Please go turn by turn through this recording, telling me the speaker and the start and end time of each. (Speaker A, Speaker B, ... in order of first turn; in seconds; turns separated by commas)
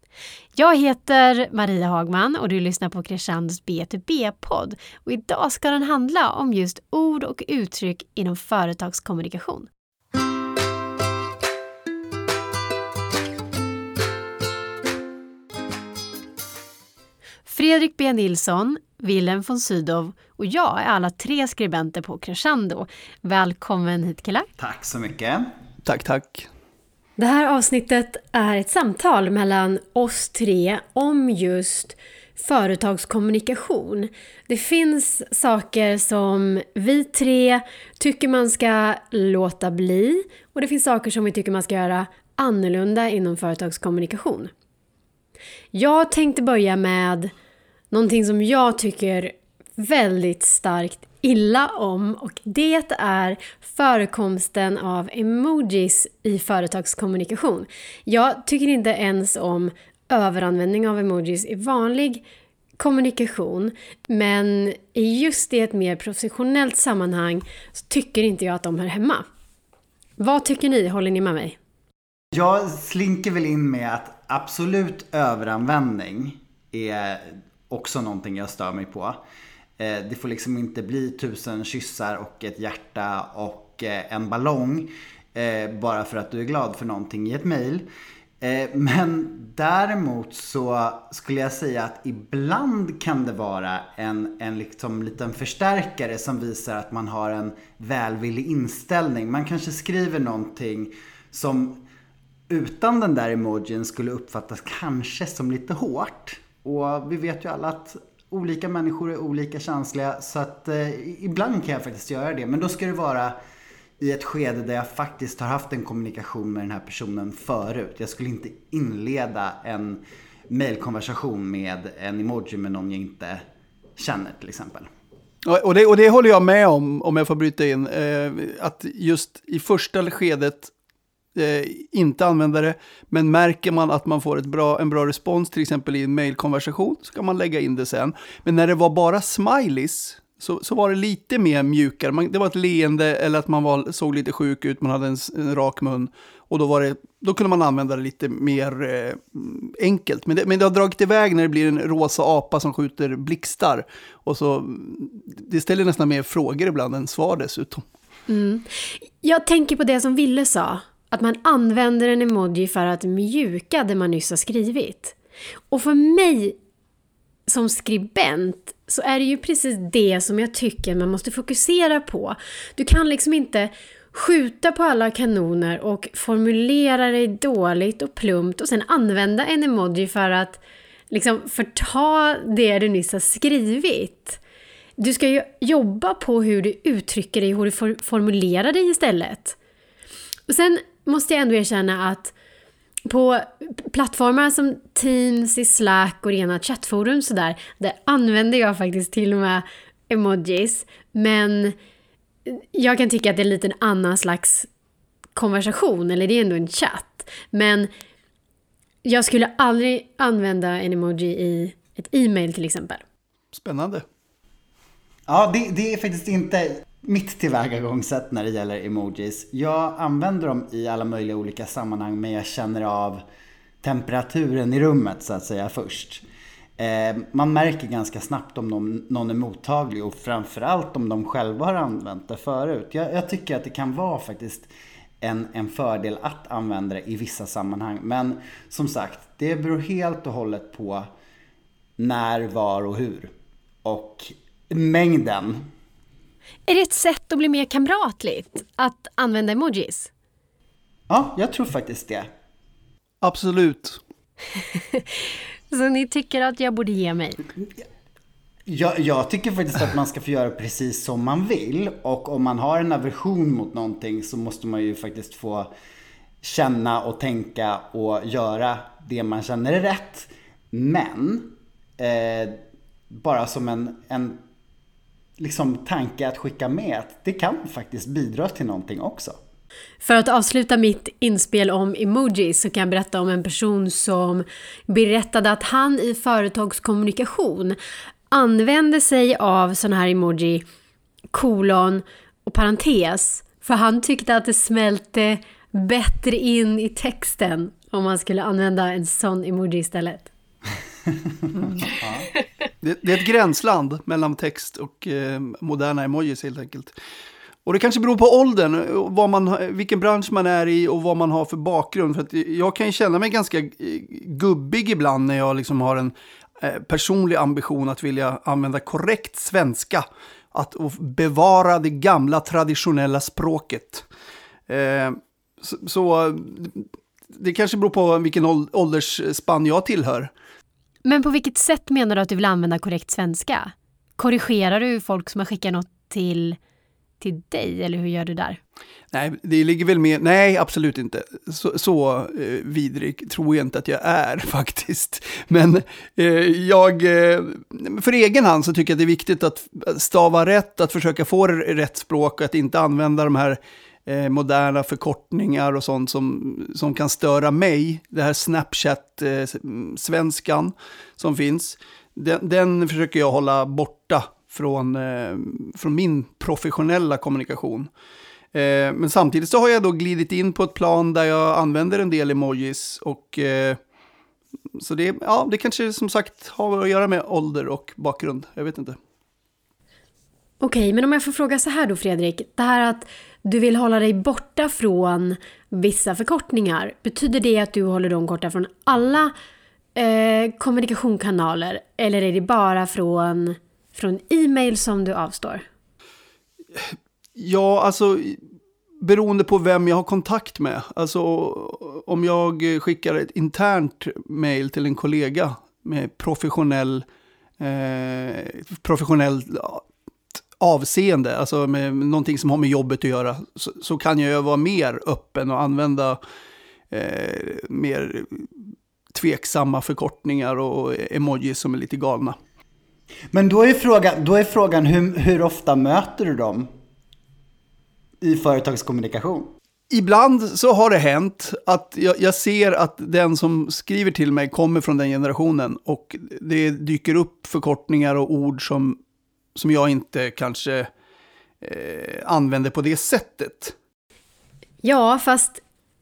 Speaker A: 0.5-9.7, Speaker A: 17.4-24.5, Speaker B: 24.6-25.4, Speaker C: 25.8-26.5, Speaker A: 27.2-44.5, Speaker A: 45.7-47.3, Speaker A: 47.9-62.2, Speaker A: 62.8-69.2, Speaker A: 70.2-71.6, Speaker B: 72.3-79.2, Speaker B: 79.8-87.8, Speaker B: 88.4-101.8, Speaker B: 102.5-113.3, Speaker B: 114.0-123.4, Speaker B: 124.0-124.9, Speaker C: 125.4-130.7, Speaker C: 131.3-157.8, Speaker A: 158.3-165.1, Speaker A: 165.7-166.6, Speaker A: 167.5-184.4, Speaker A: 185.0-189.6, Speaker A: 190.5-192.3, Speaker A: 193.1-201.8, Speaker A: 202.4-204.7, Speaker A: 205.3-207.9, Speaker A: 209.0-213.0, Speaker C: 213.5-214.0, Speaker B: 215.3-223.2, Speaker B: 223.8-226.2, Speaker B: 226.8-234.7, Speaker B: 235.2-241.1, Speaker B: 242.0-243.3, Speaker B: 243.8-245.7, Speaker A: 246.7-250.1, Speaker B: 251.1-252.3, Speaker C: 253.2-254.0, Speaker A: 254.5-257.4, Speaker B: 258.7-265.7, Speaker B: 266.4-272.6, Speaker B: 273.1-274.4, Speaker B: 275.4-279.4, Speaker A: 280.0-287.8, Speaker A: 288.3-290.6, Speaker A: 291.3-300.3, Speaker B: 301.9-302.3, Speaker C: 302.8-306.9, Speaker C: 307.6-324.1, Speaker C: 324.7-330.3, Speaker A: 331.0-336.6, Speaker A: 337.2-338.6, Speaker C: 339.1-367.9, Speaker C: 368.5-373.8, Speaker C: 374.7-379.0, Speaker A: 380.6-389.3, Speaker A: 389.9-395.6, Speaker C: 396.8-398.4, Speaker C: 399.0-407.0, Speaker C: 407.6-409.8, Speaker C: 410.6-416.2, Speaker C: 416.9-422.4, Speaker B: 423.3-426.7, Speaker B: 428.2-429.5, Speaker C: 429.9-439.0, Speaker C: 439.5-440.9, Speaker C: 441.6-443.7, Speaker A: 444.8-445.6